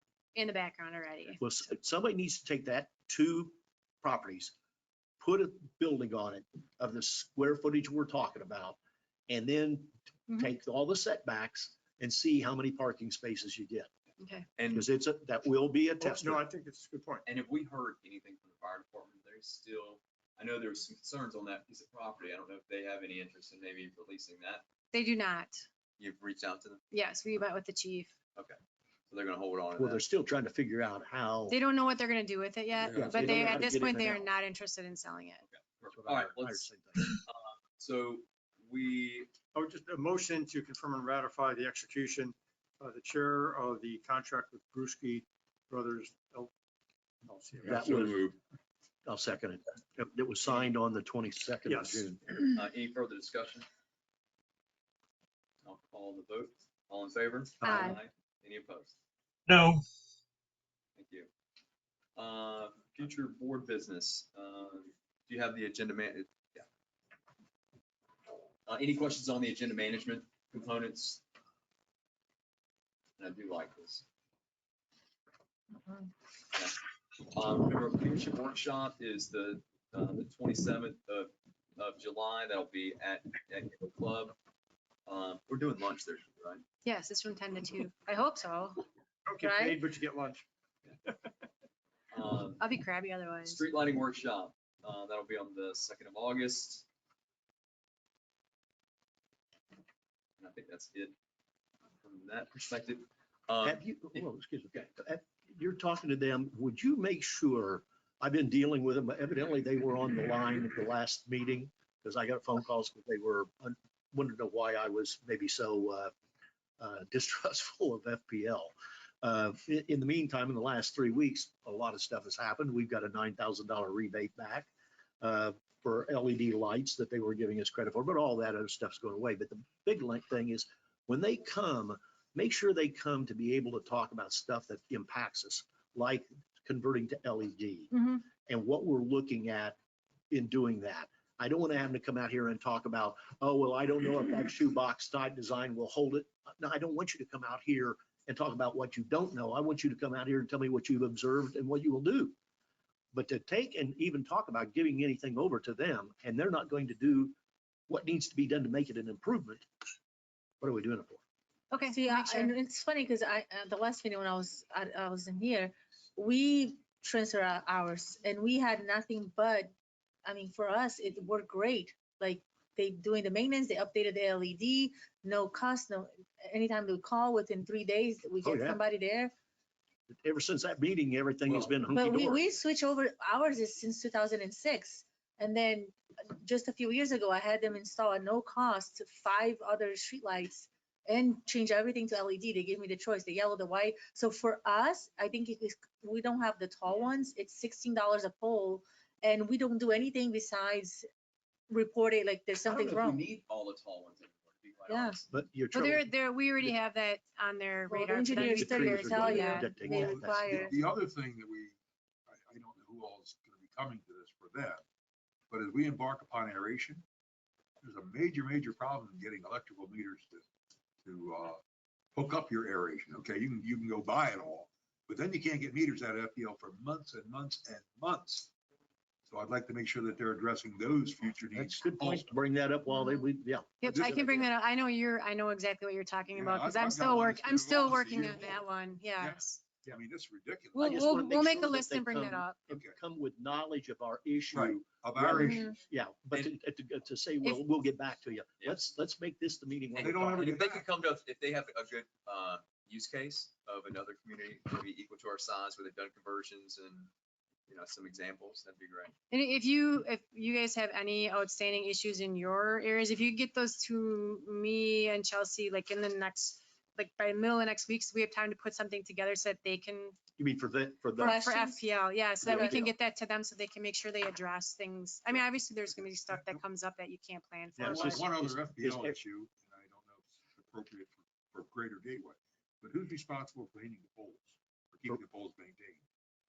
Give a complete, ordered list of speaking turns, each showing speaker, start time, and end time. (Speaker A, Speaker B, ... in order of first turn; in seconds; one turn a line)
Speaker A: 0.3-1.4
Speaker B: 1.4-4.5
Speaker B: 5.2-8.8
Speaker B: 9.3-13.9
Speaker A: 14.2-14.5
Speaker C: 14.6-14.9
Speaker B: 14.7-16.4
Speaker D: 16.0-17.2
Speaker C: 17.2-24.6
Speaker A: 24.9-25.6
Speaker C: 26.0-26.8
Speaker A: 26.9-28.1
Speaker C: 29.1-30.0
Speaker B: 29.8-31.6
Speaker A: 31.5-35.4
Speaker E: 32.8-33.2
Speaker B: 32.9-34.2
Speaker C: 35.5-39.3
Speaker B: 35.9-37.1
Speaker D: 39.5-46.5
Speaker D: 47.2-48.0
Speaker B: 47.6-48.2
Speaker C: 47.7-48.4
Speaker B: 49.0-52.2
Speaker D: 51.6-52.1
Speaker C: 52.5-53.6
Speaker C: 55.6-58.9
Speaker B: 57.6-58.0
Speaker F: 57.6-58.0
Speaker C: 61.0-61.3
Speaker C: 62.1-66.7
Speaker C: 68.7-71.2
Speaker C: 73.2-74.0
Speaker C: 76.5-76.8
Speaker C: 77.3-84.3
Speaker C: 85.1-86.6
Speaker A: 86.8-88.8
Speaker D: 89.3-90.4
Speaker F: 89.4-89.8
Speaker C: 92.1-92.6
Speaker A: 92.6-93.6
Speaker C: 93.4-96.8
Speaker C: 100.4-101.1
Speaker C: 102.0-103.8
Speaker B: 103.6-116.1
Speaker B: 116.8-124.7
Speaker B: 125.2-139.8
Speaker A: 137.9-138.2
Speaker B: 140.3-152.3
Speaker B: 153.1-157.3
Speaker B: 157.9-159.7
Speaker B: 160.6-161.2
Speaker A: 161.7-162.5
Speaker F: 161.9-169.7
Speaker F: 170.2-179.3
Speaker B: 178.4-178.8
Speaker B: 180.1-182.4
Speaker C: 181.5-181.7
Speaker F: 181.9-201.1
Speaker F: 201.7-203.2
Speaker C: 202.6-205.2
Speaker F: 204.9-205.2
Speaker B: 205.3-206.1
Speaker A: 205.7-209.7
Speaker F: 207.9-210.8
Speaker B: 208.5-210.7
Speaker E: 209.9-211.8
Speaker E: 212.3-214.8
Speaker E: 215.5-217.0
Speaker E: 217.8-220.4
Speaker E: 221.0-221.6
Speaker E: 222.1-228.5
Speaker E: 229.3-232.3
Speaker B: 231.5-234.5
Speaker A: 233.8-239.7
Speaker E: 236.3-238.6
Speaker E: 239.2-241.5
Speaker A: 240.8-242.6
Speaker B: 240.8-250.5
Speaker E: 242.7-242.9
Speaker E: 244.5-245.8
Speaker F: 245.4-245.6
Speaker C: 249.9-257.1
Speaker E: 250.0-250.9
Speaker C: 257.7-259.1
Speaker A: 259.3-270.1
Speaker B: 270.4-271.5
Speaker F: 271.2-271.9
Speaker A: 271.2-278.2
Speaker B: 272.4-272.9
Speaker F: 272.4-272.8
Speaker E: 275.3-276.6
Speaker B: 277.8-279.2
Speaker E: 277.8-286.0